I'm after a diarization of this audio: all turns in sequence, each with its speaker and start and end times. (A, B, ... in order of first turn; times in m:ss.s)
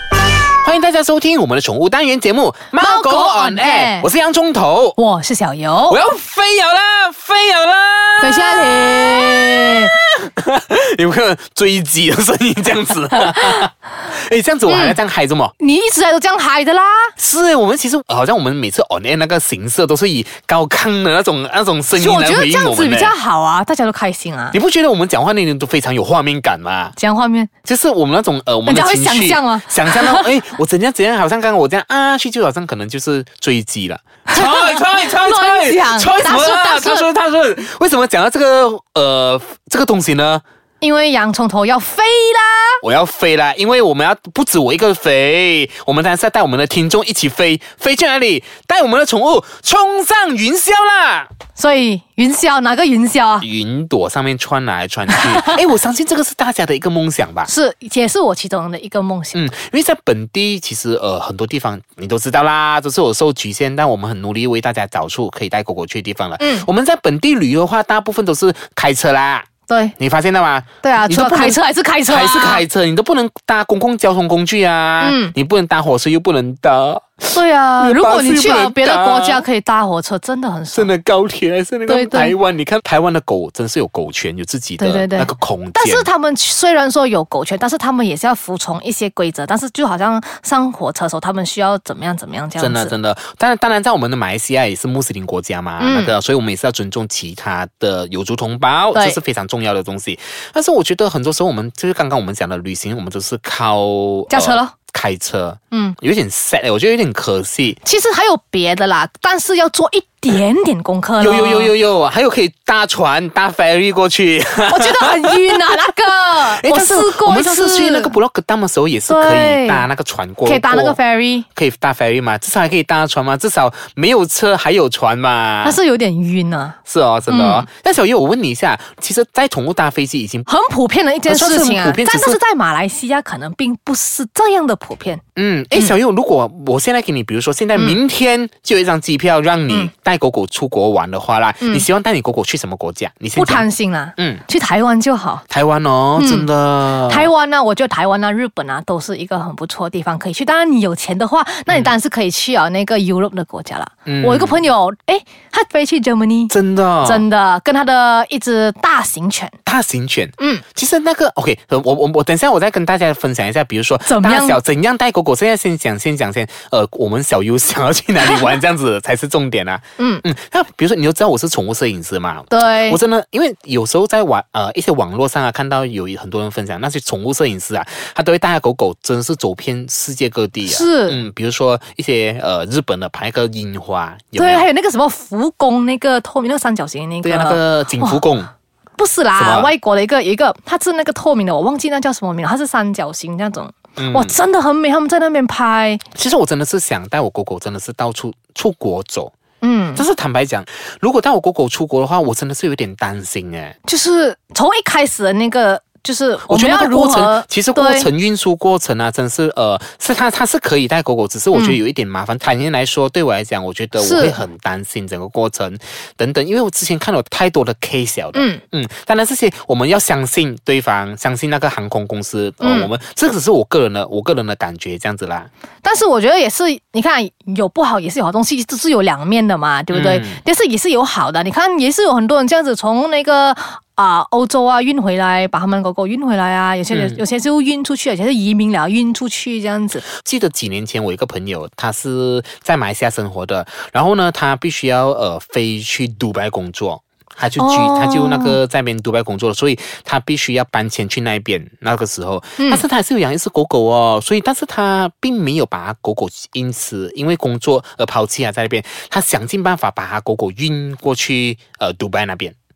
0:00.6-0:05.0 A
0:02.8-0:04.1 B
0:05.0-0:06.0 B
0:05.9-0:15.5 A
0:08.2-0:09.9 B
0:13.3-0:13.6 B
0:14.7-0:15.0 B
0:15.6-0:17.1 B
0:17.2-0:23.1 A
0:22.0-0:24.6 B
0:24.5-0:27.0 A
0:27.0-0:27.5 B
0:27.7-0:40.4 A
0:28.7-0:30.3 B
0:34.3-0:37.1 B
0:40.8-0:42.8 B
0:42.8-0:51.3 A
0:51.6-0:53.5 B
0:53.4-0:57.5 A
0:57.4-0:59.4 B
0:59.3-1:09.5 A
1:06.4-1:06.7 B
1:09.7-1:10.0 B
1:10.0-1:19.4 A
1:10.8-1:12.6 B
1:15.0-1:15.3 B
1:17.3-1:20.9 B
1:20.7-1:26.1 A
1:21.9-1:22.4 B
1:24.8-1:33.0 B
1:32.6-1:47.8 A
1:35.8-1:36.1 B
1:38.9-1:39.2 B
1:44.3-1:44.7 B
1:45.7-1:46.0 B
1:47.8-1:51.7 B
1:51.2-1:55.6 A
1:54.6-1:58.2 B
1:56.4-2:01.0 A
1:59.1-1:59.9 B
2:00.4-2:01.5 B
2:01.6-2:05.8 A
2:05.6-2:06.8 B
2:06.9-2:10.5 A
2:07.3-2:07.7 B
2:10.5-2:15.2 B
2:11.3-2:12.4 A
2:15.4-2:23.7 A
2:23.4-2:25.4 B
2:24.2-2:24.4 A
2:25.5-2:27.3 A
2:26.2-2:39.5 B
2:34.1-2:34.6 A
2:36.5-2:37.2 A
2:39.7-3:04.7 A
2:40.4-2:40.6 B
2:44.0-2:44.6 B
2:50.0-2:50.2 B
2:52.5-2:53.0 B
3:00.7-3:01.2 B
3:04.4-3:08.2 B
3:07.2-3:08.5 A
3:09.0-3:16.0 B
3:09.4-3:09.7 A
3:14.0-3:14.4 A
3:16.2-3:19.3 A
3:19.6-3:20.0 B
3:19.9-3:23.8 A
3:23.8-3:28.1 B
3:26.5-3:45.5 A
3:31.5-3:31.8 B
3:34.0-3:34.4 B
3:38.4-3:38.6 B
3:42.6-3:42.9 B
3:45.8-4:00.1 B
3:49.9-3:50.4 A
3:56.9-3:57.2 A
4:00.1-4:22.6 A
4:07.6-4:08.6 B
4:12.6-4:12.8 B